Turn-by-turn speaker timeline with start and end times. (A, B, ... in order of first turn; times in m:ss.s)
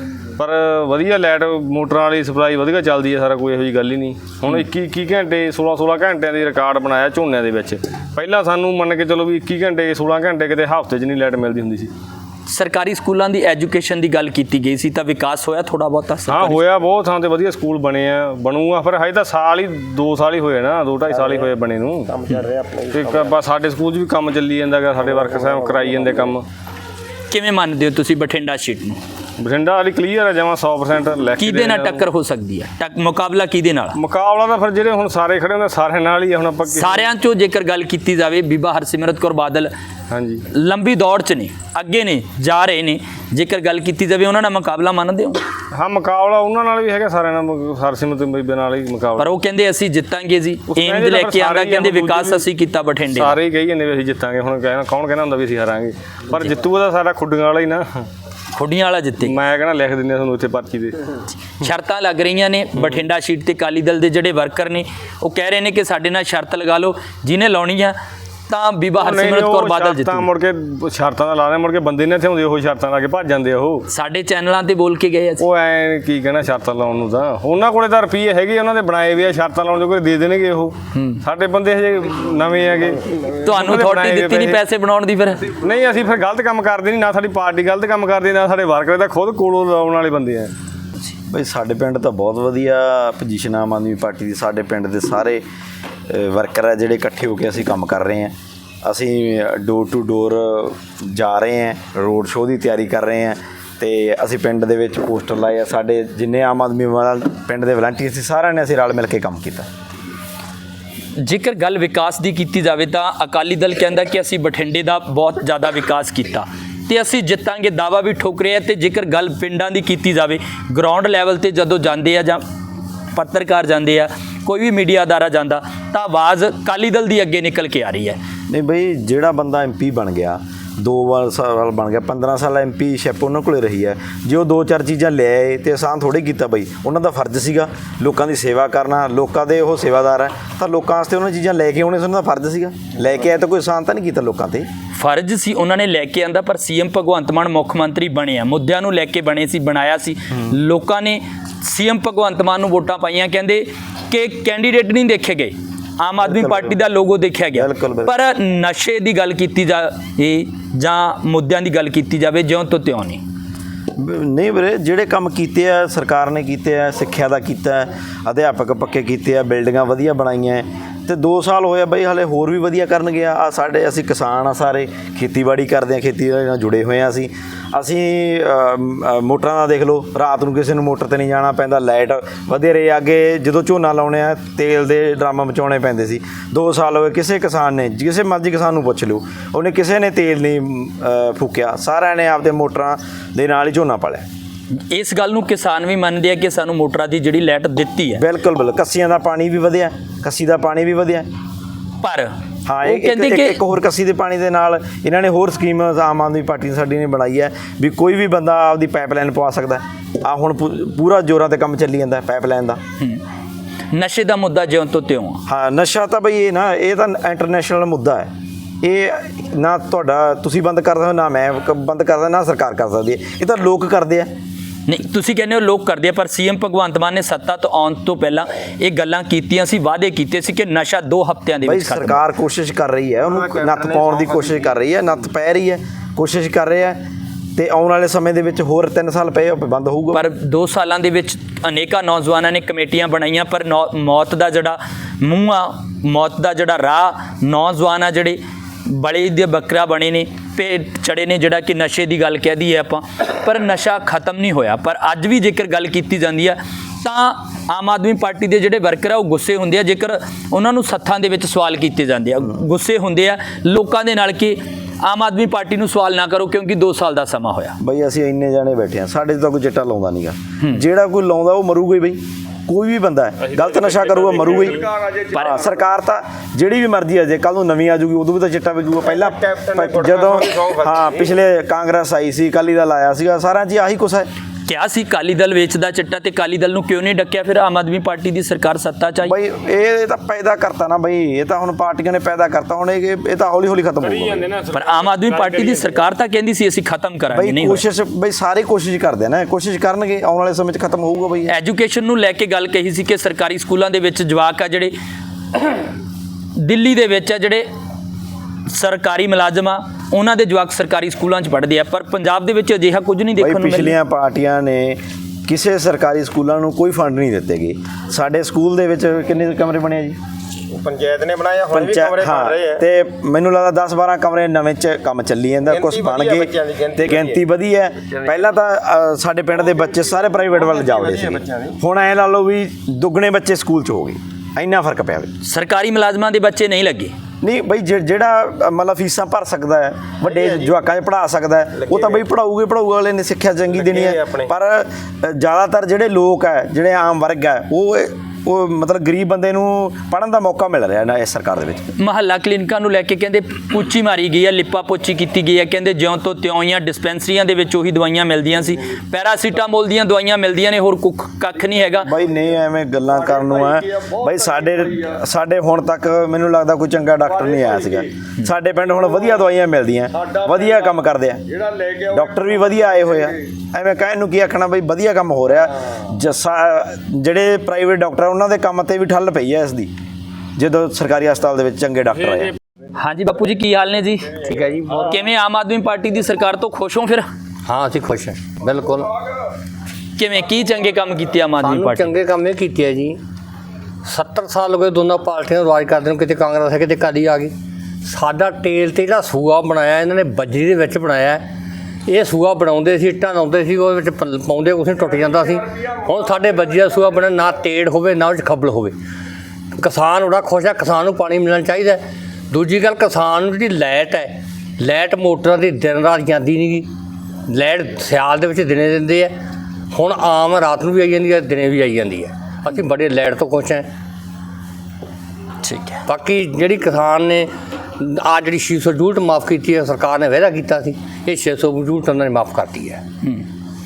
0:00.4-0:11.9 A
0:12.5-0:16.6 B
0:16.3-0:22.3 A
0:22.9-0:26.4 A
0:27.3-0:29.0 B
0:29.4-0:32.0 A
0:31.4-0:34.0 B
0:33.9-0:37.0 A
0:36.7-0:39.7 B
0:40.1-0:40.4 A
0:40.5-0:45.4 B
0:45.7-0:49.3 A
0:49.2-0:53.4 B
0:50.7-0:52.4 A
0:53.1-0:58.0 A
0:58.5-0:59.3 B
0:59.2-1:01.0 A
1:01.6-1:08.0 B
1:08.5-1:10.3 B
1:09.0-1:13.8 A
1:13.9-1:15.4 B
1:15.4-1:24.6 A
1:20.9-1:21.2 B
1:23.4-1:25.5 B
1:25.6-1:30.5 A
1:31.3-1:35.4 C
1:36.1-1:49.6 C
1:51.2-2:02.4 B
2:03.1-2:08.2 B
2:08.5-2:24.6 C
2:25.0-2:43.2 B
2:36.2-2:36.8 C
2:37.5-2:38.1 C
2:44.0-3:14.2 C
3:14.9-3:18.2 B
3:18.2-3:21.3 C
3:22.0-3:22.3 B
3:22.6-3:32.8 C
3:22.8-3:23.6 B
3:33.9-3:35.4 B
3:35.5-3:38.3 C
3:38.8-3:44.3 C
3:44.9-3:52.2 B
3:51.6-3:57.0 C
3:57.6-4:00.2 C
4:00.1-4:27.8 B
4:27.8-4:34.8 C
4:34.3-4:35.5 D
4:35.3-4:35.6 B
4:35.4-4:44.3 C
4:39.1-4:41.3 E
4:44.7-4:49.3 B
4:49.2-4:54.5 C
4:54.3-4:54.8 A
4:54.7-4:57.8 B
4:55.4-4:55.7 A
4:57.3-5:01.5 C
5:01.5-5:04.9 B
5:06.6-5:07.6 B
5:08.7-5:13.9 B
5:13.4-5:20.2 C
5:20.7-5:22.8 E
5:21.7-5:35.3 C
5:25.7-5:27.4 E
5:30.6-5:31.7 E
5:35.4-5:37.1 B
5:37.4-5:51.8 C
5:40.3-5:40.7 E
5:41.8-5:42.2 E
5:43.7-5:44.5 E
5:52.0-6:02.1 B
6:02.0-6:11.4 C
6:03.1-6:05.2 D
6:07.2-6:08.1 D
6:10.1-6:13.4 D
6:12.1-6:19.9 C
6:20.6-6:22.6 C
6:23.0-6:24.4 B
6:24.4-6:25.2 F
6:25.1-6:27.2 B
6:27.6-6:29.2 F
6:30.2-6:32.1 B
6:31.6-6:33.2 F
6:34.0-6:37.5 F
6:38.0-6:41.4 F
6:42.0-6:48.9 F
6:49.8-6:56.9 F
6:57.5-6:59.3 F
6:59.9-7:03.8 F
7:05.6-7:06.0 B
7:06.0-7:07.5 F
7:08.0-7:13.0 F